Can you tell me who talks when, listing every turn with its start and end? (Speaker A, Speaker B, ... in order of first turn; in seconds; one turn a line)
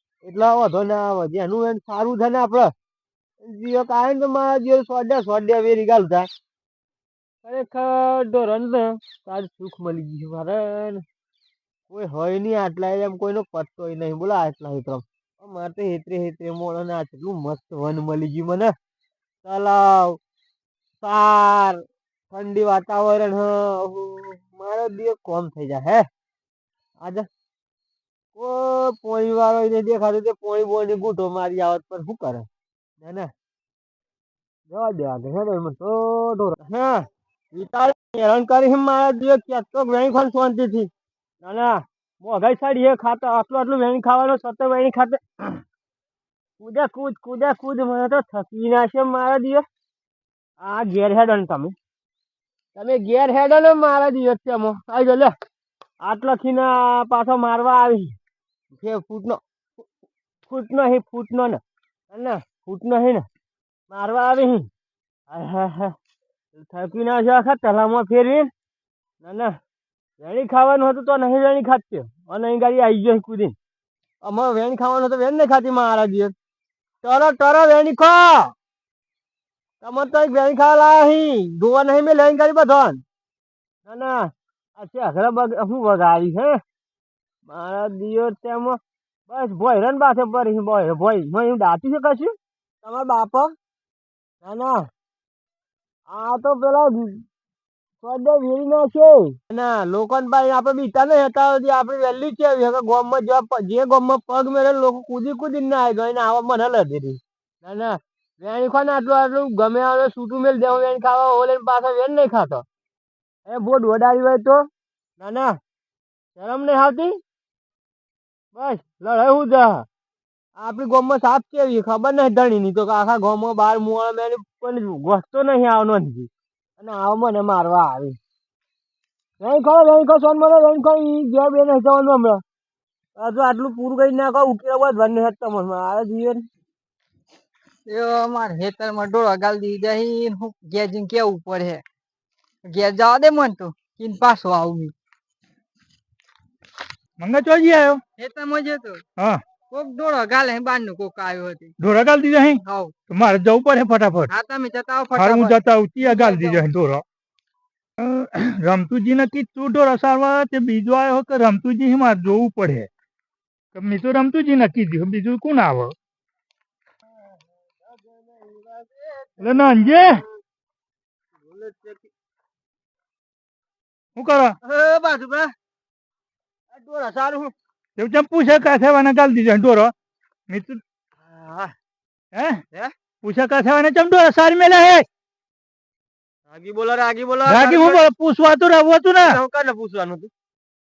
Speaker A: 0.2-2.7
Speaker A: 3.4-6.3
Speaker A: 7.4-11.0
Speaker A: 11.9-18.7
Speaker A: 19.4-20.2
Speaker A: 21.0-21.8
Speaker A: 22.3-26.1
Speaker A: 27.0-27.3
Speaker A: 28.4-32.5
Speaker A: 33.0-33.3
Speaker A: 34.7-40.9
Speaker A: 41.4-45.6
Speaker A: 46.6-49.6
Speaker A: 50.6-51.8
Speaker A: 52.8-55.3
Speaker A: 56.0-58.2
Speaker A: 58.7-59.4
Speaker A: 60.5-61.6
Speaker A: 62.1-63.3
Speaker A: 63.9-64.7
Speaker A: 65.3-65.9
Speaker A: 66.6-68.5
Speaker A: 69.2-69.5
Speaker A: 70.2-73.6
Speaker A: 74.2-76.3
Speaker A: 77.0-78.5
Speaker A: 79.8-83.0
Speaker A: 83.9-84.2
Speaker A: 84.8-86.6
Speaker A: 87.5-93.5
Speaker A: 94.4-94.8
Speaker A: 96.1-97.2
Speaker A: 98.0-112.6
Speaker A: 113.5-114.7
Speaker A: 115.2-115.5
Speaker A: 116.4-117.2
Speaker A: 118.5-119.8
Speaker A: 120.6-128.2
Speaker A: 129.4-132.4
Speaker A: 133.2-136.4
Speaker B: 137.9-141.8
Speaker B: 142.7-144.9
Speaker C: 147.2-148.0
Speaker B: 148.2-149.0
Speaker C: 149.2-149.4
Speaker B: 149.7-151.7
Speaker C: 151.8-154.3
Speaker B: 152.6-152.9
Speaker B: 154.3-156.6
Speaker C: 155.1-157.0
Speaker C: 158.0-162.9
Speaker C: 163.8-165.9
Speaker A: 167.9-170.2
Speaker C: 169.4-170.2
Speaker A: 171.4-172.1
Speaker C: 174.2-174.6
Speaker A: 174.6-175.5
Speaker A: 176.7-177.5
Speaker C: 178.0-179.9
Speaker C: 180.5-180.8
Speaker A: 181.2-181.7
Speaker C: 182.3-182.6
Speaker C: 183.2-185.1
Speaker A: 186.5-188.0
Speaker C: 187.4-189.4
Speaker A: 189.2-190.3